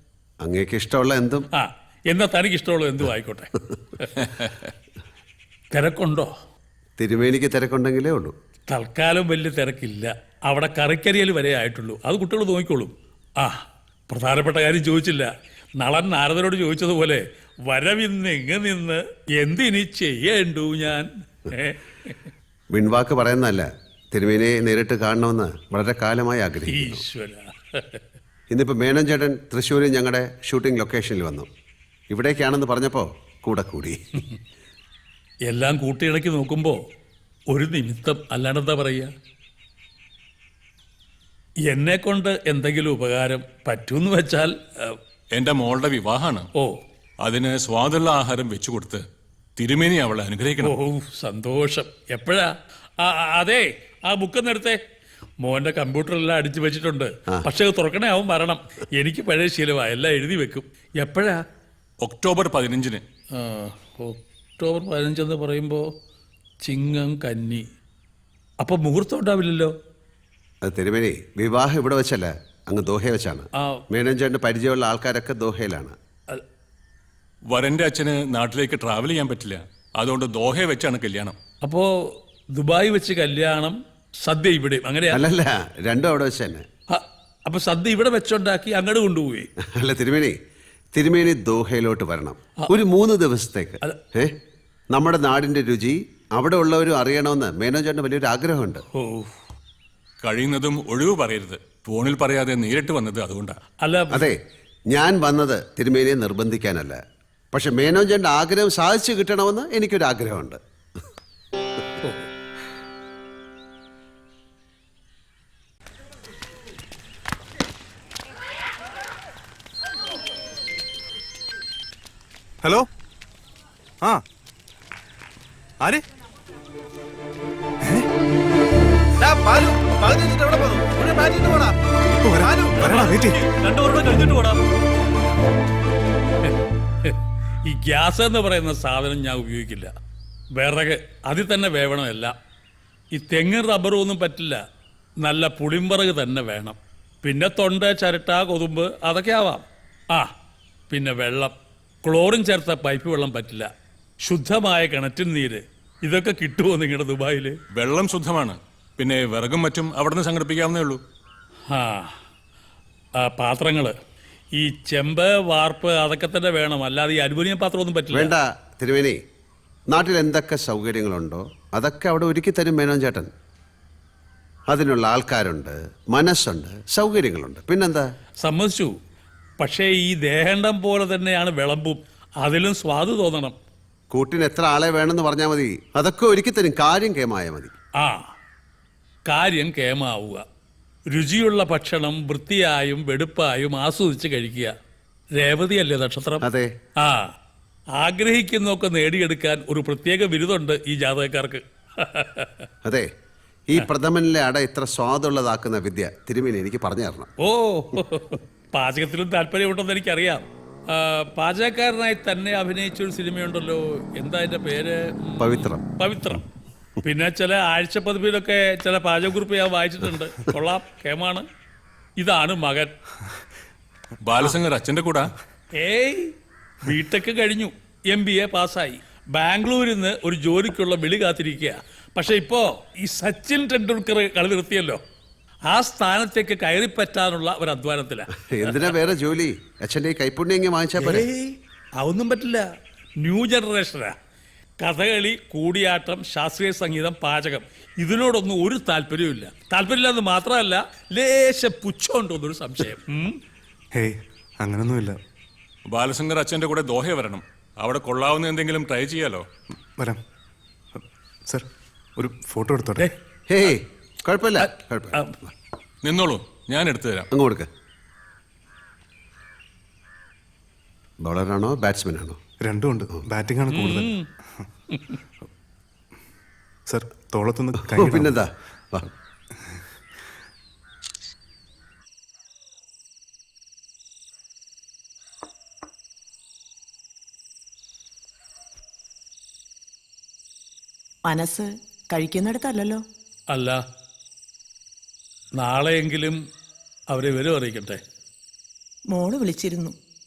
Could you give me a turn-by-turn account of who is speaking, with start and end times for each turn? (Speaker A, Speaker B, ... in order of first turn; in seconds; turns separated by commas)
Speaker A: 0.4-1.5, Speaker B: 1.5-4.3, Speaker B: 5.7-6.3, Speaker A: 7.0-8.3, Speaker B: 8.7-22.2, Speaker A: 22.7-27.0, Speaker B: 26.6-28.0, Speaker A: 28.5-31.5, Speaker A: 32.1-34.0, Speaker B: 35.5-36.8, Speaker B: 37.5-39.1, Speaker B: 41.7-45.0, Speaker C: 45.3-46.5, Speaker C: 47.2-49.0, Speaker C: 49.6-50.7, Speaker B: 50.6-54.8, Speaker B: 55.4-61.4, Speaker C: 62.0-63.0, Speaker B: 63.3-65.8, Speaker B: 66.6-67.6, Speaker B: 68.6-69.7, Speaker A: 70.6-75.9, Speaker C: 77.5-81.3, Speaker B: 81.6-81.9, Speaker B: 82.5-85.2, Speaker A: 85.1-86.6, Speaker B: 86.9-89.5, Speaker A: 89.7-90.3, Speaker A: 90.9-94.3, Speaker A: 94.9-98.8, Speaker B: 98.9-99.3, Speaker C: 100.2-103.6, Speaker B: 103.8-104.3, Speaker A: 104.9-107.0, Speaker A: 107.5-110.6, Speaker B: 112.0-112.3, Speaker D: 132.2-133.5, Speaker B: 136.4-139.9, Speaker B: 140.6-142.3, Speaker B: 143.1-144.6, Speaker B: 145.2-150.3, Speaker B: 150.9-153.7, Speaker B: 154.2-157.6, Speaker C: 157.7-161.0, Speaker B: 161.7-162.1, Speaker B: 163.2-163.9, Speaker B: 164.6-168.3, Speaker A: 168.1-169.2, Speaker A: 169.9-173.3, Speaker A: 174.7-178.1, Speaker B: 178.4-178.9, Speaker B: 179.6-183.6, Speaker A: 184.1-187.7, Speaker B: 188.0-188.3, Speaker B: 189.3-190.4, Speaker B: 191.1-194.7, Speaker B: 195.4-196.4, Speaker A: 196.4-196.7, Speaker B: 197.0-197.3, Speaker B: 198.0-202.7, Speaker A: 203.7-207.3, Speaker B: 207.4-216.4, Speaker A: 215.4-215.8, Speaker B: 217.0-221.4, Speaker B: 222.2-222.9, Speaker C: 224.2-225.3, Speaker B: 225.7-226.3, Speaker B: 226.8-235.0, Speaker B: 235.7-238.9, Speaker A: 238.5-241.3, Speaker B: 241.0-242.7, Speaker B: 243.2-244.1, Speaker B: 244.8-253.3, Speaker D: 253.9-255.2, Speaker C: 255.8-259.4, Speaker D: 260.9-263.1, Speaker A: 263.5-265.3, Speaker B: 264.6-265.4, Speaker C: 266.0-267.3, Speaker A: 267.3-267.7, Speaker A: 271.2-272.4, Speaker D: 272.6-274.7, Speaker B: 273.7-274.2, Speaker B: 274.9-275.2, Speaker D: 276.9-278.4, Speaker A: 277.7-279.1, Speaker E: 291.2-293.0, Speaker B: 293.5-293.8, Speaker B: 295.6-296.4, Speaker B: 297.1-298.0, Speaker E: 299.1-300.0